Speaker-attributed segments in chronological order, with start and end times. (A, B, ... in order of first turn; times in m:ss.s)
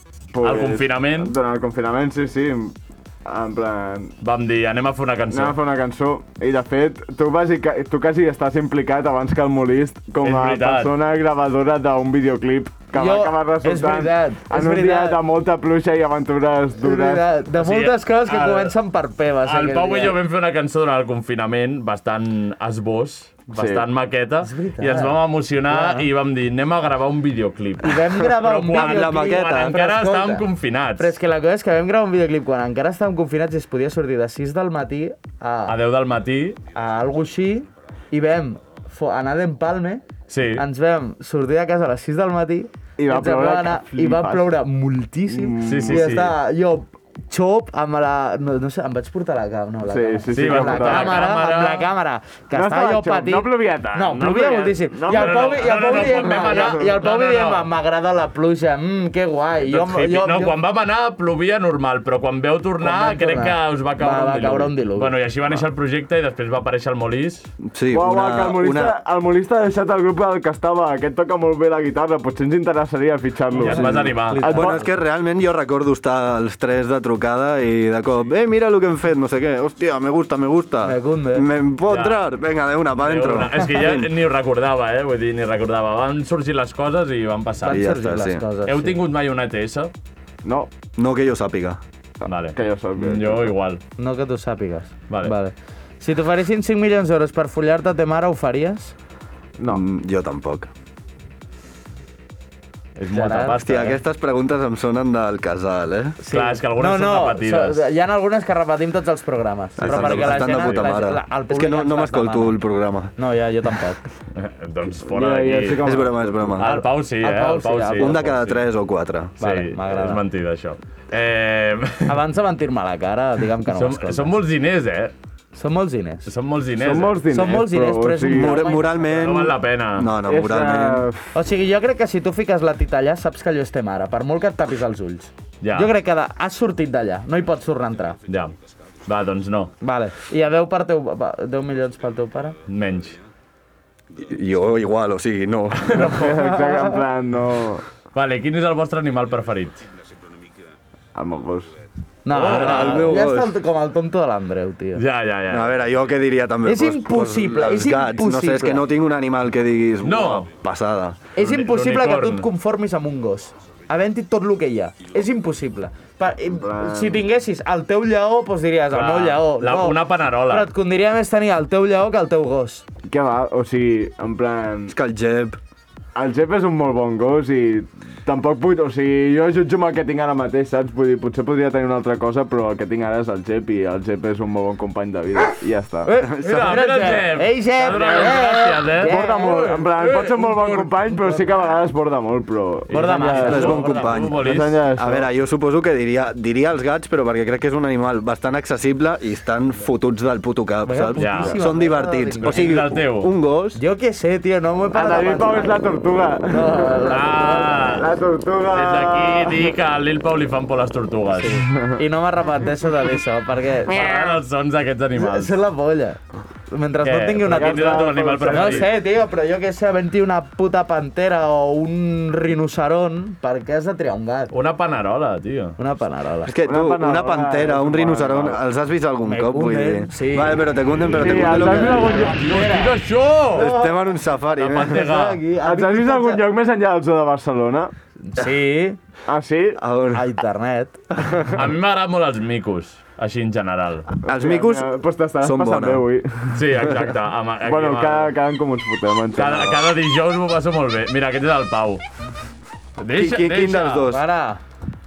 0:00.3-0:04.1 A
0:00.4-0:01.4 B
0:04.2-0:05.6 B
0:05.3-0:17.3 A
0:10.2-0:10.9 B
0:12.9-0:15.2 C
0:16.8-0:20.2 C
0:17.5-0:18.8 B
0:19.4-0:31.2 B
0:23.5-0:23.9 A
0:24.4-0:26.1 C
0:27.8-0:30.5 C
0:28.7-0:29.8 D
0:31.0-0:35.8 C
0:35.7-0:36.6 B
0:36.7-0:40.0 C
0:40.3-0:40.6 B
0:40.6-1:00.6 C
0:43.0-0:44.5 A
0:45.3-0:46.2 A
0:45.6-0:46.3 B
0:49.8-0:51.3 A
0:50.3-0:51.9 B
0:52.5-0:56.9 A
0:55.1-0:57.7 B
0:59.6-1:07.5 B
1:02.8-1:05.2 C
1:07.6-1:09.0 D
1:07.9-1:14.8 A
1:13.5-1:14.9 C
1:13.6-1:14.5 B
1:14.4-1:24.1 D
1:20.8-1:21.5 C
1:21.9-1:22.2 B
1:23.0-1:27.9 B
1:27.6-1:29.0 C
1:27.6-1:28.4 D
1:28.6-1:29.9 B
1:30.4-1:30.7 A
1:31.0-1:31.8 D
1:32.3-1:33.8 B
1:32.3-1:33.5 A
1:34.0-1:38.9 C
1:39.6-1:39.8 A
1:39.7-1:40.7 D
1:43.0-1:44.0 B
1:43.1-1:43.8 C
1:43.6-1:46.2 D
1:46.2-1:52.6 C
1:46.3-1:47.8 B
1:49.8-1:53.1 D
1:49.9-1:51.0 B
1:53.2-1:54.1 C
1:54.4-1:55.9 B
1:55.0-1:56.6 A
1:55.8-1:56.7 D
1:56.6-1:58.6 B
1:56.6-1:58.3 C
1:58.0-1:59.3 D
1:59.4-2:02.2 B
1:59.4-2:00.2 C
2:02.1-2:04.4 C
2:03.7-2:05.1 B
2:05.5-2:06.3 C
2:06.3-2:07.2 B
2:06.8-2:08.7 A
2:07.3-2:09.4 C
2:08.3-2:11.1 D
2:09.2-2:10.1 B
2:10.2-2:11.2 A
2:11.3-2:18.2 C
2:15.6-2:15.9 B
2:18.3-2:18.6 B
2:19.1-2:19.7 B
2:19.8-2:22.6 C
2:22.7-2:23.2 B
2:24.2-2:26.1 D
2:25.9-2:26.3 B
2:26.0-2:27.8 A
2:26.4-2:27.0 C
2:28.1-2:29.8 B
2:31.2-2:31.7 A
2:32.2-2:35.0 C
2:32.3-2:33.2 B
2:32.4-2:33.5 D
2:35.0-2:35.8 B
2:35.5-2:41.2 D
2:36.6-2:38.9 C
2:40.0-2:40.5 B
2:41.4-2:52.8 C
2:41.4-2:42.5 B
2:46.6-2:47.2 A
2:48.9-2:50.7 B
2:53.1-2:55.0 A
2:54.9-2:55.6 D
2:56.2-3:06.1 A
3:06.0-3:09.7 C
3:06.2-3:06.8 D
3:06.4-3:10.9 B
3:07.9-3:08.4 A
3:09.0-3:15.3 A
3:12.9-3:14.8 B
3:12.9-3:14.1 C
3:13.4-3:23.8 D
3:20.9-3:22.7 C
3:21.2-3:21.6 B
3:22.4-3:23.3 B
3:23.8-3:25.9 C
3:24.9-3:27.0 A
3:26.5-3:28.0 C
3:27.1-3:28.1 B
3:27.8-3:29.7 A
3:28.7-3:31.6 B
3:31.4-3:34.4 C
3:31.7-3:32.0 A
3:33.9-3:35.5 B
3:35.2-3:36.2 C
3:36.7-3:44.5 C
3:37.0-3:38.9 B
3:37.4-3:38.9 A
3:44.5-3:45.8 B
3:45.8-3:46.5 C
3:46.4-3:52.3 D
3:46.6-3:48.6 A
3:49.3-3:50.7 C
3:51.0-3:52.4 A
3:51.4-3:53.0 C
3:52.2-3:53.7 B
3:53.5-3:55.1 D
3:53.6-3:54.2 C
3:54.6-3:55.4 B
3:54.8-3:56.4 C
3:55.6-3:57.9 A
3:58.2-3:59.0 C
3:59.3-3:59.8 A
3:59.8-4:00.3 D
4:00.1-4:01.0 C
4:01.5-4:04.1 B
4:04.3-4:06.1 D
4:04.3-4:07.1 A
4:06.5-4:08.3 B
4:07.6-4:09.8 A
4:09.3-4:12.0 B
4:13.0-4:14.1 B
4:13.1-4:14.2 D
4:14.1-4:14.6 C